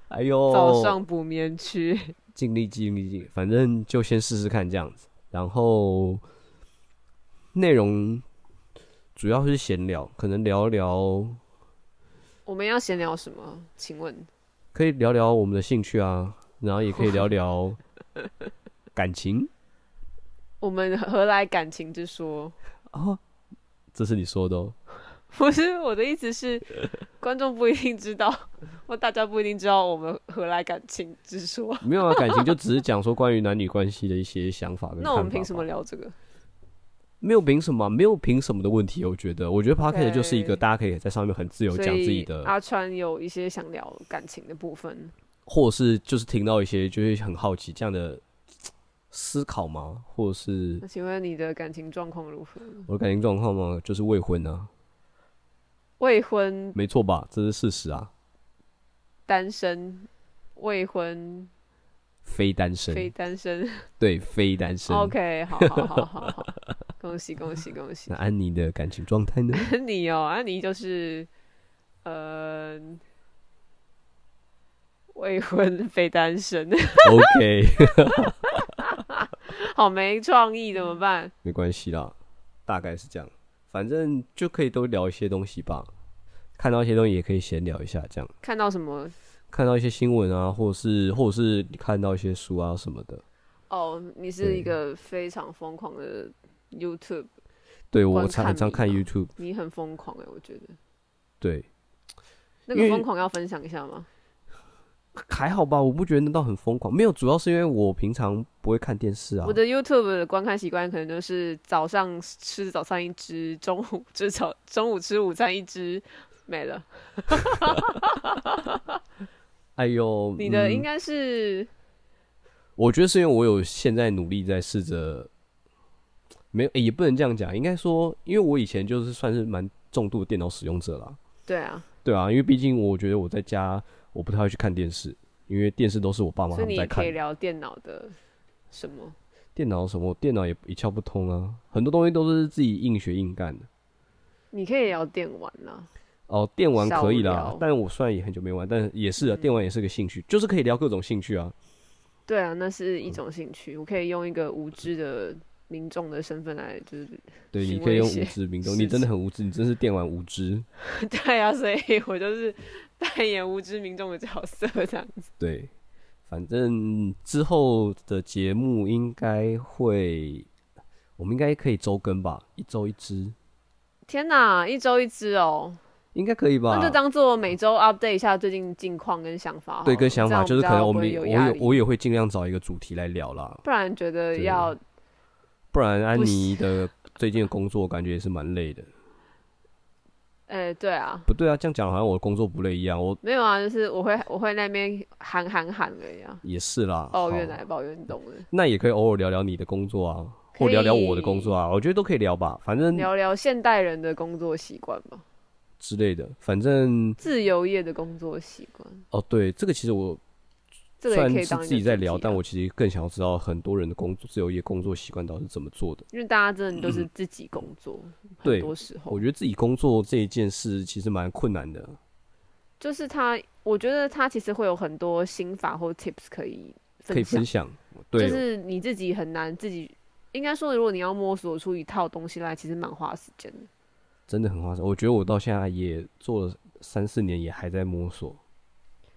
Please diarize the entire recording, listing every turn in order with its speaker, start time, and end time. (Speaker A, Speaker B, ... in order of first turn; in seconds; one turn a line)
Speaker A: 0.1-1.0
Speaker B: 0.5-2.1
Speaker A: 2.4-6.2
Speaker A: 7.5-8.2
Speaker A: 9.2-11.4
Speaker B: 12.4-14.3
Speaker A: 14.7-17.8
Speaker A: 18.9-19.5
Speaker B: 20.6-22.6
Speaker A: 22.9-23.2
Speaker A: 23.9-24.7
Speaker B: 25.3-32.5
Speaker A: 31.8-35.6
Speaker B: 35.0-36.1
Speaker A: 37.2-42.5
Speaker B: 39.8-40.6
Speaker B: 41.7-45.1
Speaker A: 45.5-48.2
Speaker A: 49.1-50.8
Speaker B: 50.8-52.9
Speaker A: 52.9-54.7
Speaker B: 56.0-56.8
Speaker A: 56.7-58.1
Speaker B: 59.3-61.5
Speaker A: 62.2-63.1
Speaker B: 62.9-63.9
Speaker A: 64.0-65.2
Speaker B: 64.9-68.1
Speaker A: 68.1-69.7
Speaker B: 69.5-71.3
Speaker B: 72.0-73.0
Speaker B: 75.1-77.3
Speaker A: 77.0-78.4
Speaker B: 78.8-81.3
Speaker A: 81.4-82.1
Speaker A: 82.7-85.9
Speaker A: 86.6-88.3
Speaker B: 88.4-89.1
Speaker A: 89.5-93.2
Speaker B: 93.7-97.3
Speaker A: 94.4-94.7
Speaker A: 97.9-99.3
Speaker B: 98.1-100.8
Speaker A: 101.4-101.7
Speaker B: 102.7-104.1
Speaker A: 102.7-103.0
Speaker A: 105.1-109.6
Speaker B: 109.4-118.8
Speaker A: 119.8-120.8
Speaker B: 120.4-121.7
Speaker A: 122.8-125.3
Speaker A: 126.5-131.2
Speaker B: 131.5-131.9
Speaker A: 132.0-137.2
Speaker B: 136.5-138.2
Speaker B: 138.7-139.2
Speaker A: 139.6-143.7
Speaker B: 144.5-145.9
Speaker A: 146.3-151.5
Speaker B: 146.8-147.6
Speaker B: 149.2-149.5
Speaker B: 152.3-159.1
Speaker A: 157.5-160.7
Speaker B: 160.8-165.3
Speaker A: 165.4-165.7
Speaker A: 166.3-170.5
Speaker A: 171.2-173.3
Speaker B: 174.1-175.8
Speaker A: 176.1-177.0
Speaker B: 176.7-181.8
Speaker A: 179.8-183.6
Speaker B: 183.6-184.8
Speaker A: 184.3-184.7
Speaker A: 185.7-188.9
Speaker B: 186.1-186.8
Speaker B: 190.5-191.3
Speaker A: 191.2-193.2
Speaker B: 193.2-196.4
Speaker A: 196.4-197.6
Speaker B: 197.1-198.5
Speaker A: 198.5-203.1
Speaker B: 200.5-201.5
Speaker B: 202.9-205.2
Speaker A: 205.8-207.2
Speaker B: 207.2-209.0
Speaker A: 209.1-210.2
Speaker B: 211.0-212.4
Speaker A: 211.1-216.0
Speaker B: 216.1-219.2
Speaker A: 216.8-217.1
Speaker A: 218.4-222.0
Speaker B: 222.8-227.5
Speaker A: 227.1-228.4
Speaker B: 228.2-233.7
Speaker A: 234.3-238.4